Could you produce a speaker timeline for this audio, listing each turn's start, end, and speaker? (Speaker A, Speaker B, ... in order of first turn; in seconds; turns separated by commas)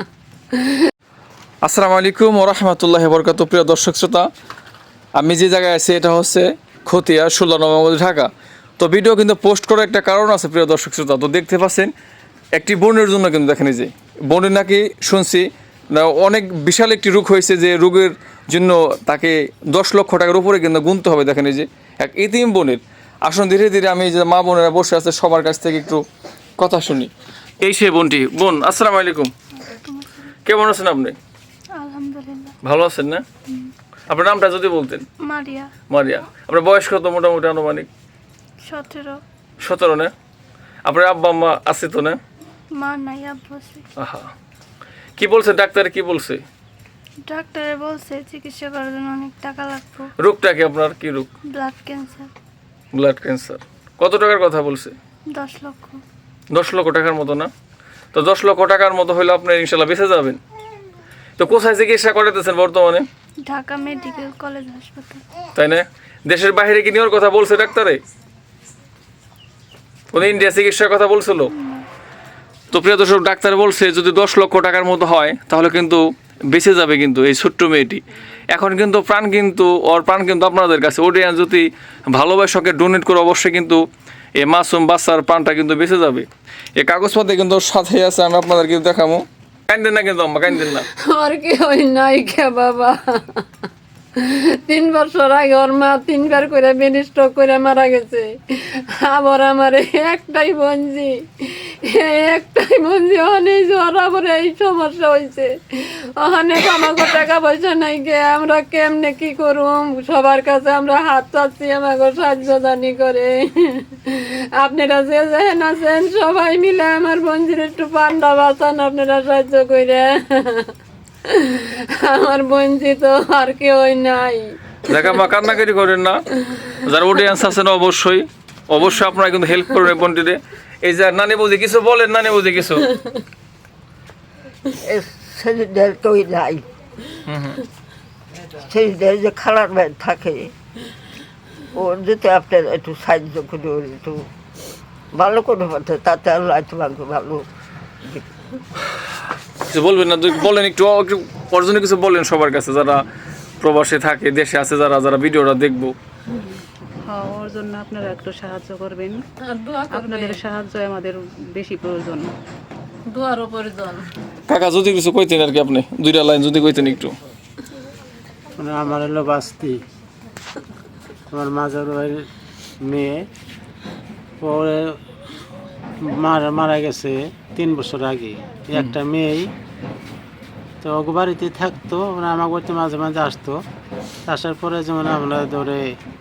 Speaker A: 0.6-0.9, Speaker B: 1.6-4.3, Speaker B: 5.2-11.9, Speaker B: 12.6-26.0, Speaker B: 26.6-29.3, Speaker C: 29.6-30.3, Speaker B: 30.4-31.2, Speaker C: 31.8-32.5, Speaker B: 32.6-33.2, Speaker B: 34.1-35.0, Speaker C: 35.2-35.7, Speaker B: 35.9-37.9, Speaker C: 38.6-39.2, Speaker B: 39.6-40.1, Speaker B: 40.8-42.2, Speaker C: 42.7-43.8, Speaker B: 44.0-44.3, Speaker B: 45.2-46.4, Speaker C: 47.3-50.1, Speaker B: 50.2-51.3, Speaker C: 51.5-52.3, Speaker B: 52.9-55.0, Speaker C: 55.3-56.0, Speaker B: 56.5-57.5, Speaker B: 58.1-60.4, Speaker B: 61.4-63.1, Speaker C: 63.4-65.2, Speaker B: 65.6-68.0, Speaker B: 70.1-71.5, Speaker C: 71.5-71.8, Speaker B: 72.7-83.8, Speaker B: 84.4-86.2, Speaker B: 86.8-90.8, Speaker A: 90.6-93.4, Speaker A: 94.2-120.7, Speaker A: 121.2-124.4, Speaker B: 124.9-126.2, Speaker B: 126.8-132.8, Speaker D: 134.8-136.6, Speaker B: 137.3-137.6, Speaker D: 138.6-140.5, Speaker D: 141.7-144.2, Speaker D: 145.1-147.4, Speaker B: 149.7-153.0, Speaker B: 153.6-155.9, Speaker E: 157.1-159.2, Speaker A: 159.5-160.4, Speaker E: 159.9-162.3, Speaker A: 163.1-164.1, Speaker B: 164.5-167.1, Speaker F: 168.6-169.8, Speaker F: 171.3-172.2, Speaker F: 172.8-173.3, Speaker F: 174.4-174.9, Speaker F: 176.1-179.5, Speaker F: 180.8-183.6, Speaker F: 184.3-185.8